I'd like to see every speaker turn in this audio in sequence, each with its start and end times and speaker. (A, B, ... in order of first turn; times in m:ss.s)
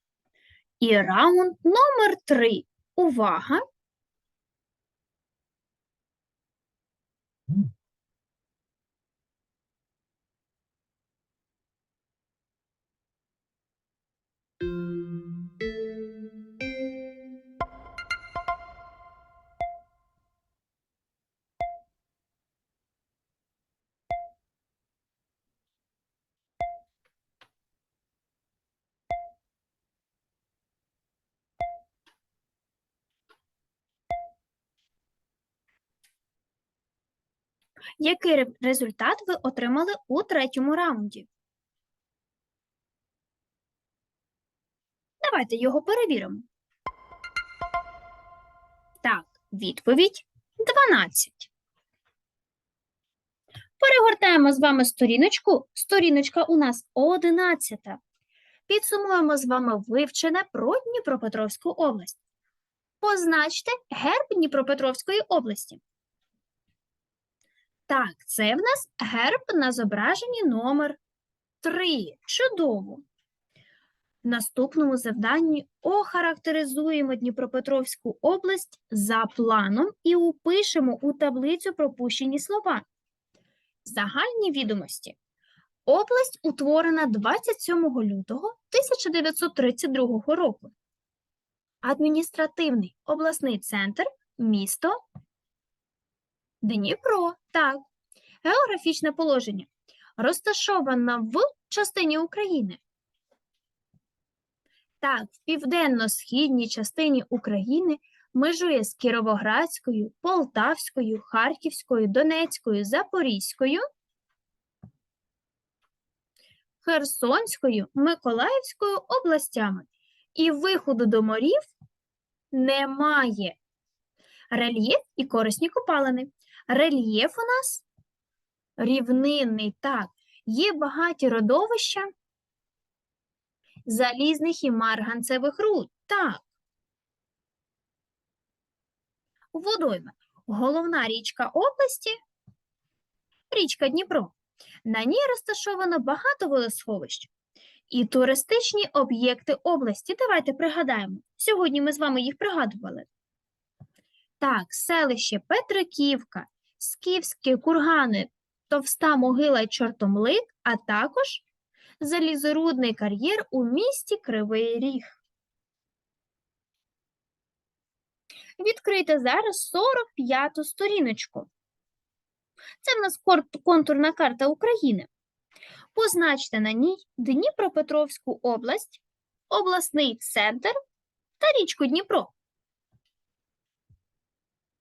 0:00.8-0:03.6 A
0:38.0-0:41.3 A
0:45.2-0:46.4 A
0:49.0-0:51.5 A
0:53.8-0:58.0 A
0:58.7-1:02.2 A
1:03.0-1:05.8 A
1:07.9-1:11.0 A
1:11.6-1:13.0 A
1:14.2-1:22.8 A
1:23.8-1:25.2 A
1:25.8-1:30.7 A
1:31.8-1:35.0 A
1:36.6-1:37.8 A
1:38.4-1:42.8 A
1:45.0-1:53.8 A
1:56.8-2:01.6 A
2:02.5-2:03.6 A
2:04.5-2:07.8 A
2:08.8-2:12.1 A
2:13.8-2:16.4 A
2:19.5-2:22.2 A
2:23.5-2:27.3 A
2:27.9-2:33.0 A
2:34.4-2:41.4 A
2:42.0-2:45.2 A
2:48.6-2:51.5 A
2:52.8-2:55.1 A
2:55.9-3:00.7 A
3:01.4-3:02.3 A